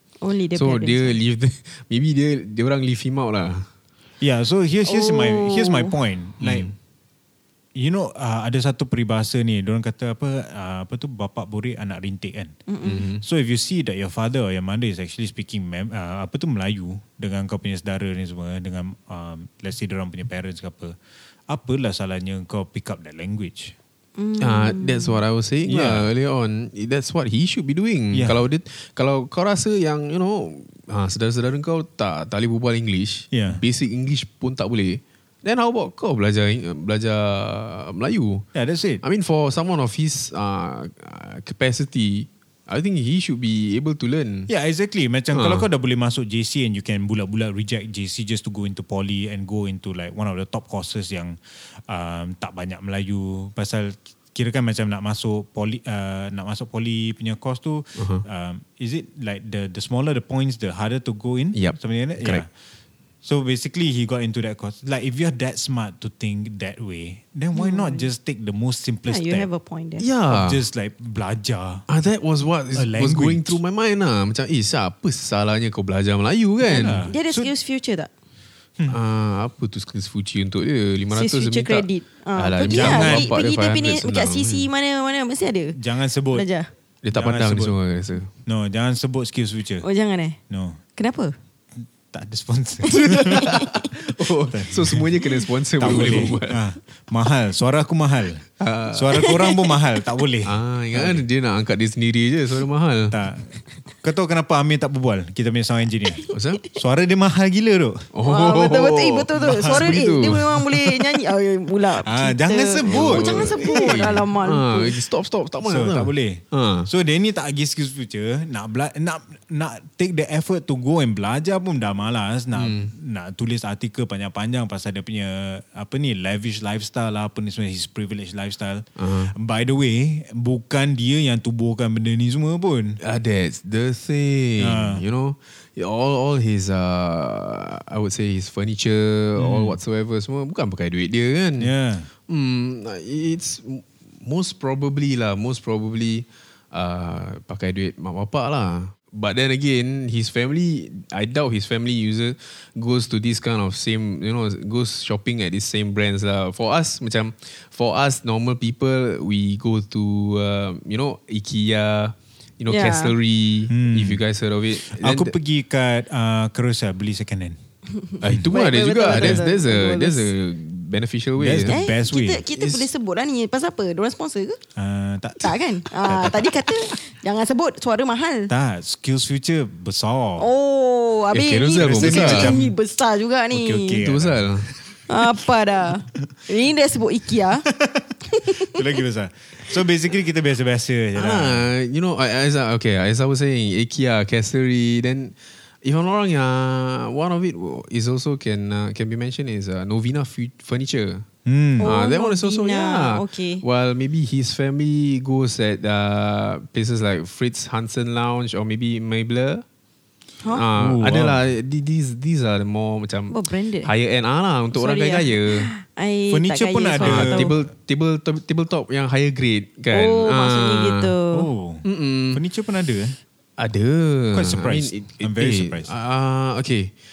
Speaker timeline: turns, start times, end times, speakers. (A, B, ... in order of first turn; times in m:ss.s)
0:00.2-0:01.2 A
0:00.6-0:03.7 B
0:04.2-0:06.7 C
0:04.9-0:05.9 A
0:06.4-0:06.7 B
0:07.8-0:12.6 C
0:12.7-0:13.0 A
0:12.8-0:13.2 B
0:13.2-0:21.0 C
0:21.5-0:23.8 C
0:24.2-0:25.2 A
0:24.4-0:38.4 B
0:25.7-0:26.1 C
0:28.1-0:28.4 C
0:33.3-0:33.6 C
0:38.6-0:39.0 C
0:39.0-0:44.5 B
0:44.5-1:02.5 C
0:45.3-0:45.7 B
0:58.0-0:58.2 B
1:01.5-1:02.4 B
1:03.2-1:09.5 C
1:07.6-1:08.1 A
1:09.1-1:10.0 A
1:10.0-1:10.6 B
1:10.3-1:11.8 C
1:11.9-1:17.1 B
1:12.7-1:13.6 C
1:16.7-1:17.5 C
1:16.7-1:18.1 A
1:18.9-1:24.7 B
1:21.1-1:25.8 A
1:22.7-1:23.3 C
1:25.8-1:26.5 C
1:26.3-1:26.7 A
1:27.0-1:28.3 B
1:27.1-1:27.8 C
1:28.5-1:29.9 C
1:29.8-1:30.4 A
1:30.5-1:30.8 C
1:31.0-1:31.3 A
1:32.1-1:33.6 C
1:33.1-1:36.6 B
1:33.1-1:33.8 A
1:34.5-1:35.2 C
1:35.8-1:41.2 C
1:38.6-1:39.2 B
1:39.2-1:39.6 A
1:40.4-1:43.1 B
1:43.1-1:48.1 C
1:46.3-1:46.6 B
1:48.1-1:50.9 B
1:48.2-1:55.0 A
1:49.4-1:50.0 C
1:52.0-1:53.6 C
1:52.8-1:56.9 B
1:55.6-2:13.0 C
2:02.6-2:02.9 B
2:09.0-2:09.3 B
2:13.0-2:21.7 B
2:14.6-2:15.0 C
2:19.4-2:19.8 C
2:21.6-2:22.1 C
2:22.3-2:45.3 B
2:42.7-2:43.1 A
2:43.7-2:44.2 C
2:44.9-2:47.6 C
2:48.2-2:51.8 B
2:48.5-2:50.3 A
2:49.1-2:49.4 C
2:51.4-2:52.4 C
2:51.7-2:54.6 A
2:52.6-2:52.8 B
2:54.8-2:56.5 C
2:55.4-2:58.5 A
2:58.5-3:00.5 C
3:00.4-3:04.0 A
3:01.3-3:02.6 B
3:01.8-3:02.7 C
3:03.5-3:04.8 C
3:04.0-3:04.7 B
3:05.1-3:07.7 A
3:07.8-3:08.1 C
3:08.3-3:08.7 A
3:08.6-3:11.7 C
3:11.1-3:21.2 B
3:21.5-3:21.9 C
3:21.8-3:23.6 A
3:21.8-3:29.6 B
3:30.5-3:35.7 B
3:30.8-3:31.4 C
3:33.3-3:33.9 A
3:34.7-3:37.5 A
3:36.3-3:37.6 C
3:37.0-3:41.1 B
3:39.9-3:41.5 A
3:41.3-3:43.2 C
3:41.8-3:42.4 B
3:43.6-3:46.9 B
3:44.3-3:45.9 C